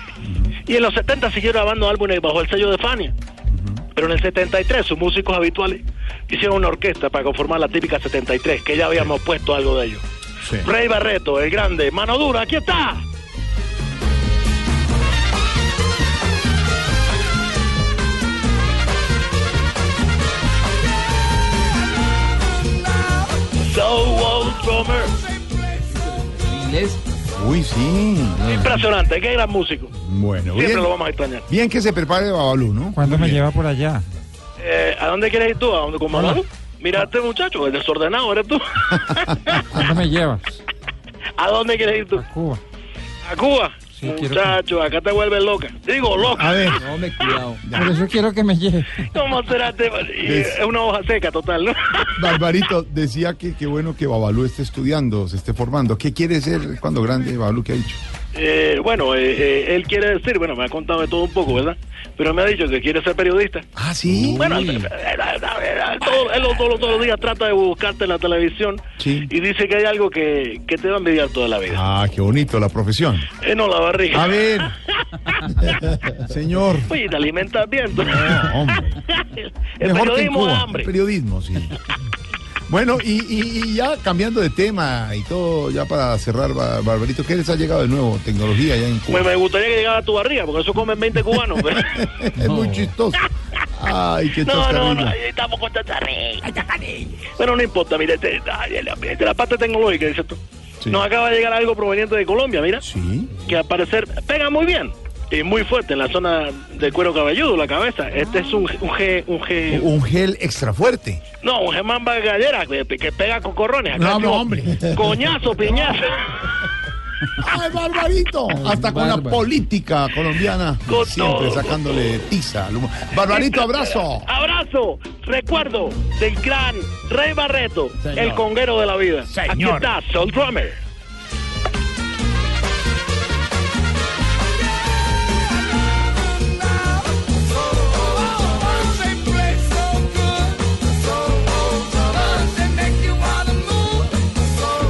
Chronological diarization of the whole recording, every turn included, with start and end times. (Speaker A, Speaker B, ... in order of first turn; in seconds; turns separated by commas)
Speaker A: 0.2-0.5, Speaker B: 0.7-3.1, Speaker A: 3.5-3.8, Speaker B: 4.0-10.0, Speaker B: 10.6-13.0, Speaker B: 23.5-25.1, Speaker C: 26.2-27.0, Speaker A: 27.3-28.6, Speaker B: 28.4-29.9, Speaker A: 30.0-30.9, Speaker B: 30.5-31.4, Speaker A: 31.5-33.4, Speaker D: 32.9-34.0, Speaker B: 34.6-39.7, Speaker D: 39.7-40.5, Speaker B: 41.4-42.2, Speaker D: 42.1-42.6, Speaker B: 43.2-47.5, Speaker D: 44.0-44.6, Speaker A: 46.3-46.9, Speaker C: 46.8-47.6, Speaker A: 47.6-48.0, Speaker D: 47.7-49.1, Speaker B: 49.0-52.4, Speaker A: 50.2-50.6, Speaker A: 52.2-58.0, Speaker B: 58.3-63.7, Speaker A: 63.8-64.6, Speaker D: 64.3-64.6, Speaker B: 64.3-71.8, Speaker A: 69.0-69.3, Speaker A: 71.7-73.3, Speaker B: 73.4-75.9, Speaker A: 74.1-74.8, Speaker A: 75.7-76.9, Speaker B: 76.9-80.9, Speaker A: 78.0-79.0, Speaker A: 79.8-81.8, Speaker A: 82.7-89.3, Speaker B: 89.1-92.0, Speaker A: 91.7-95.2, Speaker C: 92.4-92.7, Speaker B: 94.4-96.5, Speaker A: 96.5-97.2, Speaker B: 97.3-102.8, Speaker A: 102.8-103.5, Speaker B: 103.5-109.9, Speaker A: 109.7-111.2, Speaker B: 111.4-116.5, Speaker A: 113.9-115.1, Speaker A: 117.3-124.3, Speaker C: 118.7-119.4, Speaker B: 120.9-121.9, Speaker B: 123.3-130.8, Speaker A: 129.3-129.9, Speaker C: 142.8-143.2